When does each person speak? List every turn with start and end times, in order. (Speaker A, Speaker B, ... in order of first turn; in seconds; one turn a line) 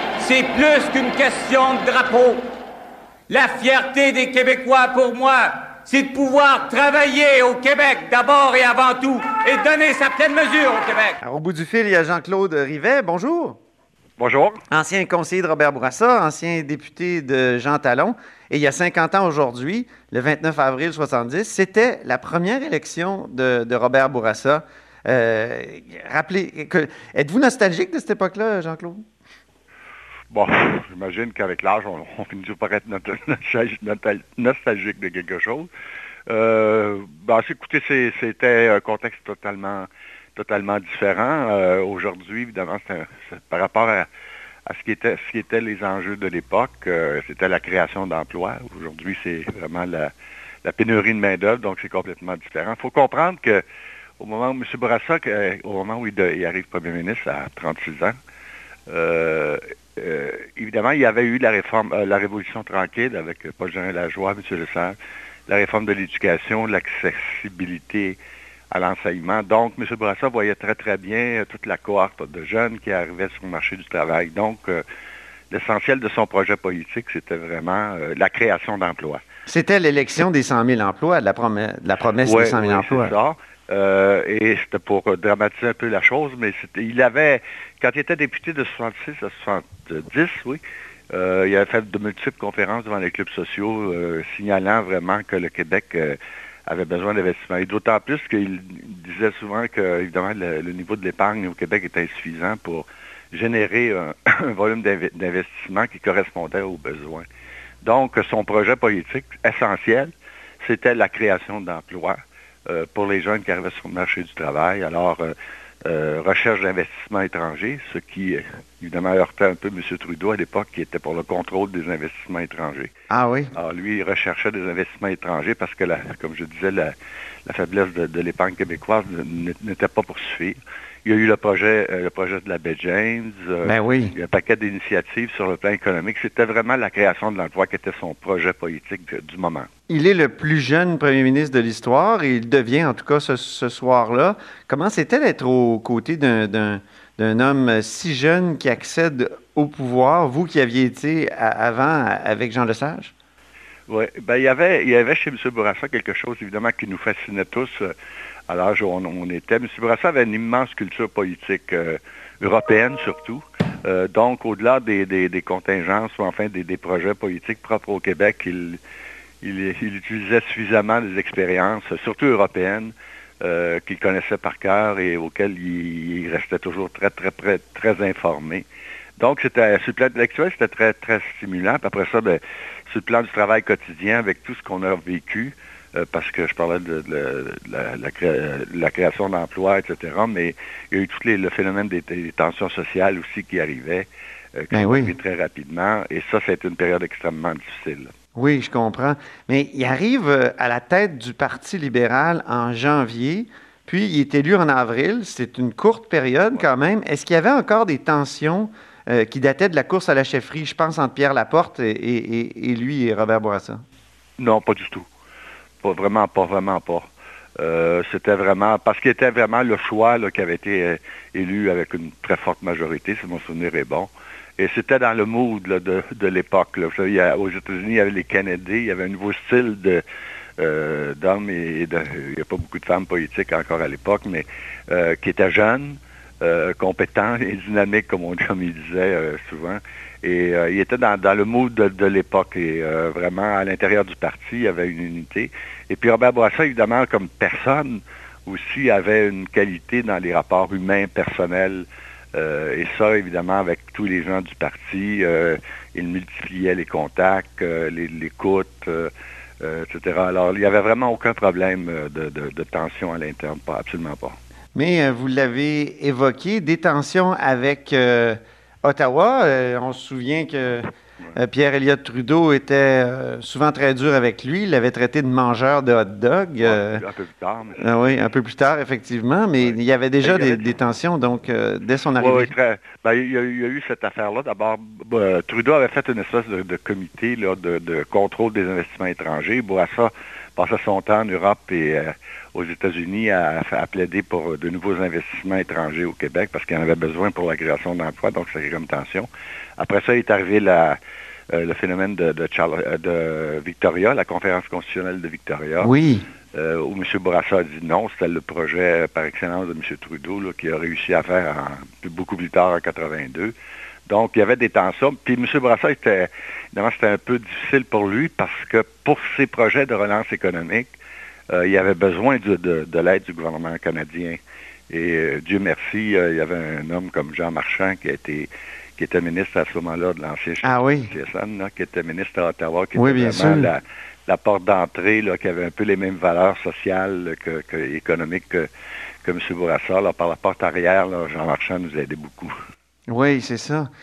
Speaker A: 0.2-2.4
Speaker A: 3.3-11.2
Speaker B: 11.2-13.6
Speaker C: 14.2-14.6
Speaker B: 14.7-29.0
Speaker C: 30.3-35.7
Speaker C: 36.3-44.1
Speaker C: 44.7-50.1
Speaker C: 50.6-53.6
Speaker C: 54.2-58.1
Speaker C: 58.9-65.0
Speaker C: 65.5-68.2
Speaker C: 68.7-74.8
Speaker C: 75.5-79.2
Speaker B: 79.5-83.1
Speaker C: 82.2-107.2
Speaker C: 107.8-115.3
Speaker C: 115.8-122.9
Speaker B: 123.1-123.5
Speaker C: 123.5-126.9
Speaker C: 127.5-139.7
Speaker B: 133.6-134.1
Speaker B: 139.9-153.1
Speaker C: 153.9-157.9
Speaker C: 158.5-168.8
Speaker C: 169.4-178.6
Speaker C: 179.2-198.1
Speaker B: 194.7-195.1
Speaker B: 198.3-213.8
Speaker C: 214.4-215.1
Speaker C: 215.8-217.1
Speaker C: 217.6-230.0
Speaker C: 230.6-264.4
Speaker B: 264.7-277.0
Speaker C: 276.6-278.1
Speaker B: 277.8-282.5
Speaker C: 279.6-280.8
Speaker C: 282.1-301.0
Speaker C: 301.5-305.9
Speaker B: 305.8-306.2
Speaker C: 306.5-313.5
Speaker C: 314.1-320.9
Speaker C: 321.5-324.4
Speaker C: 324.9-338.7
Speaker B: 330.6-331.1
Speaker B: 332.9-333.7
Speaker C: 339.2-342.5
Speaker B: 343.1-343.9